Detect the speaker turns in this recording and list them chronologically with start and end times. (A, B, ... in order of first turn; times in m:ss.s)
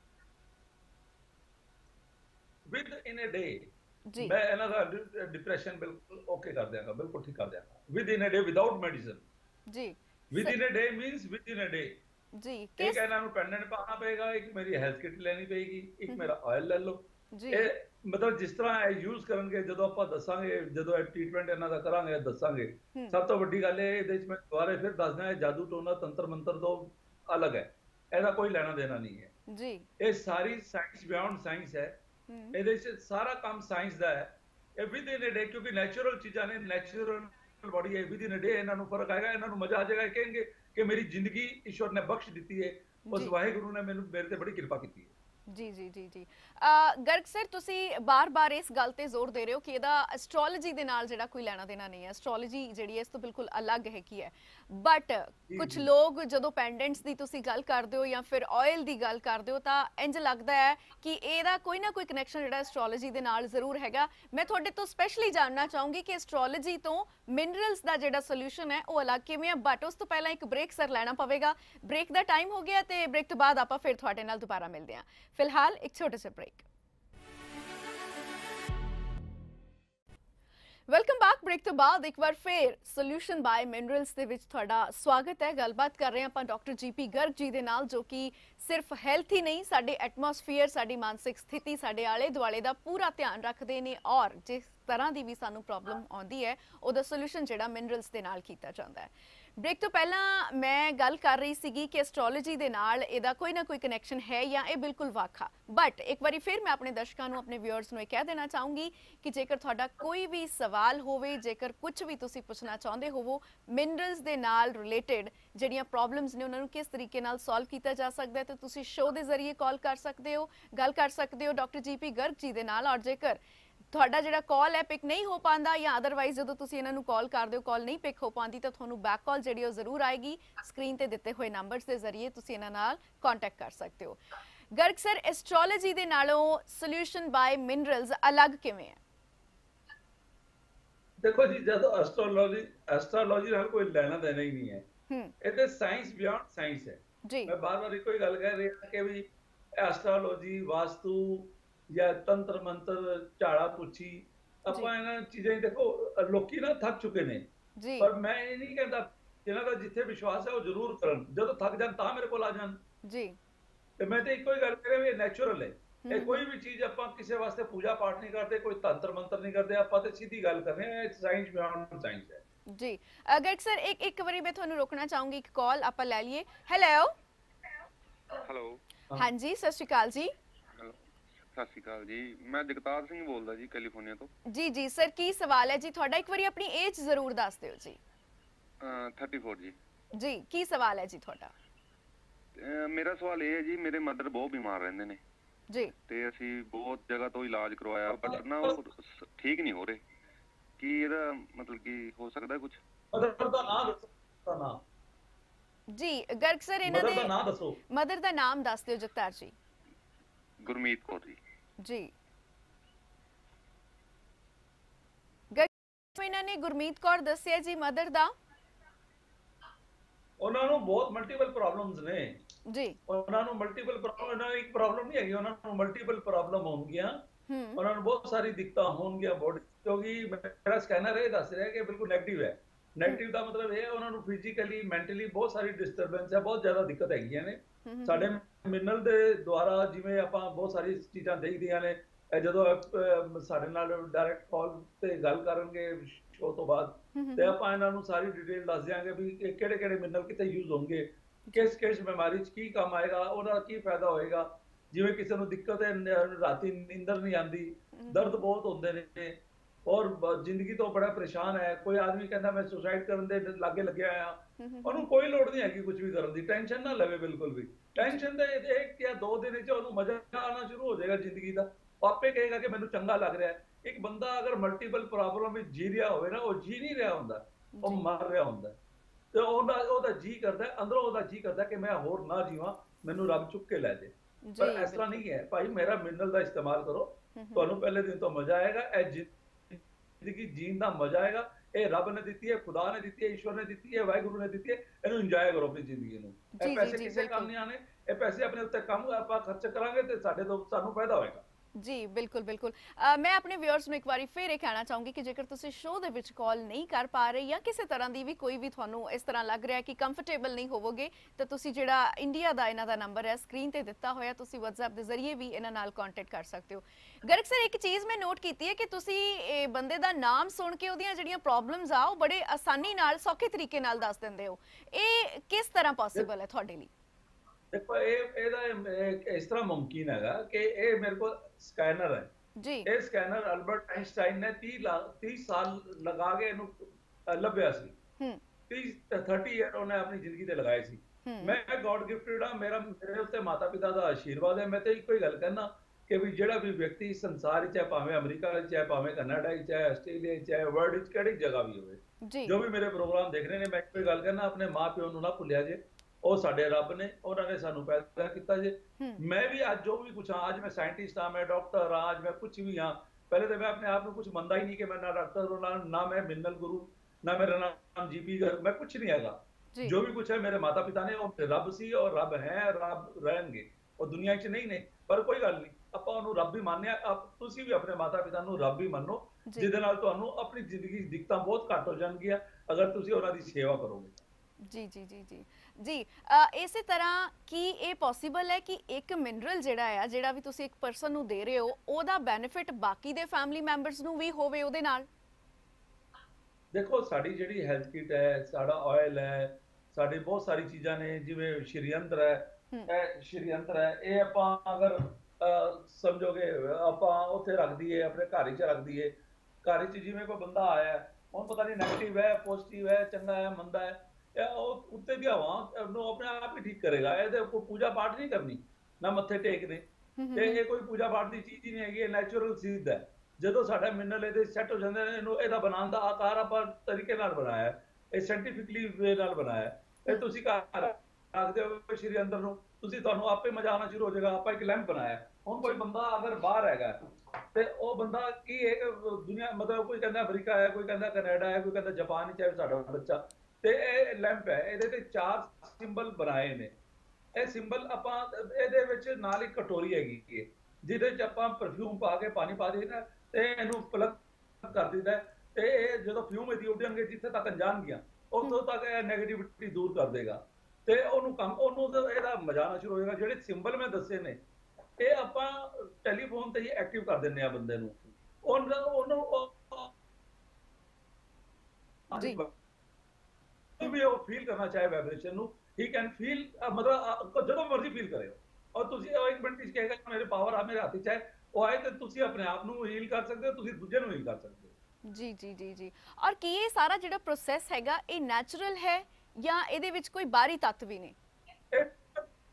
0:02.7-0:09.2 A
0:09.7-0:10.6 B
0:10.3-0:12.0 A
0:12.4-0:13.0 B
0:12.8-0:29.3 A
0:17.3-0:17.7 B
0:29.5-0:29.9 B
0:30.0-0:32.0 A
0:32.3-0:32.6 B
0:32.5-0:45.1 A
0:43.1-0:43.3 B
0:45.5-1:16.6 B
0:55.5-0:55.9 A
1:20.9-2:03.4 B
2:03.9-2:14.2 B
2:14.8-2:19.0 B
2:21.2-2:24.8 A
2:25.4-2:37.4 A
2:27.2-2:27.5 B
2:37.8-2:38.1 B
2:38.0-2:42.8 A
2:43.0-2:43.4 B
2:44.0-2:52.4 A
2:46.0-2:46.4 B
2:52.7-2:57.1 B
2:58.4-2:58.8 C
2:59.2-3:00.3 B
3:01.5-3:04.3 C
3:04.4-3:08.0 B
3:08.8-3:09.7 C
3:10.1-3:11.5 B
3:12.6-3:15.2 C
3:16.1-3:20.0 C
3:18.1-3:18.8 A
3:20.8-3:22.8 C
3:23.1-3:24.8 A
3:25.9-3:27.3 B
3:26.8-3:27.8 A
3:27.9-3:29.5 B
3:30.6-3:31.4 C
3:31.8-3:32.1 B
3:35.5-3:38.3 B
3:40.4-3:42.4 A
3:42.7-3:43.0 B
3:43.1-3:47.2 A
3:47.5-3:47.8 B
3:47.8-4:38.8 A
3:57.8-3:58.3 B
4:07.1-4:07.5 B
4:18.0-4:18.3 B
4:24.6-4:25.0 B
4:28.0-4:28.2 B
4:37.7-4:38.0 B
4:39.3-5:01.4 A
4:44.4-4:45.2 B
4:47.4-4:47.7 B
4:56.6-4:57.5 B
5:01.8-5:26.9 B
5:27.7-5:32.3 A
5:32.6-5:32.9 B
5:32.8-5:38.0 A
5:38.7-6:24.2 A
5:41.2-5:41.6 B
5:52.2-5:52.6 B
6:24.6-6:35.1 B
6:36.7-7:17.0 A
7:00.2-7:00.6 B
7:17.5-7:26.7 A
7:27.3-7:44.4 A
7:45.0-7:49.9 A
7:52.1-7:52.5 A
7:52.2-7:52.4 B
7:53.8-8:04.7 A
8:05.1-8:11.1 B
8:11.7-8:12.3 A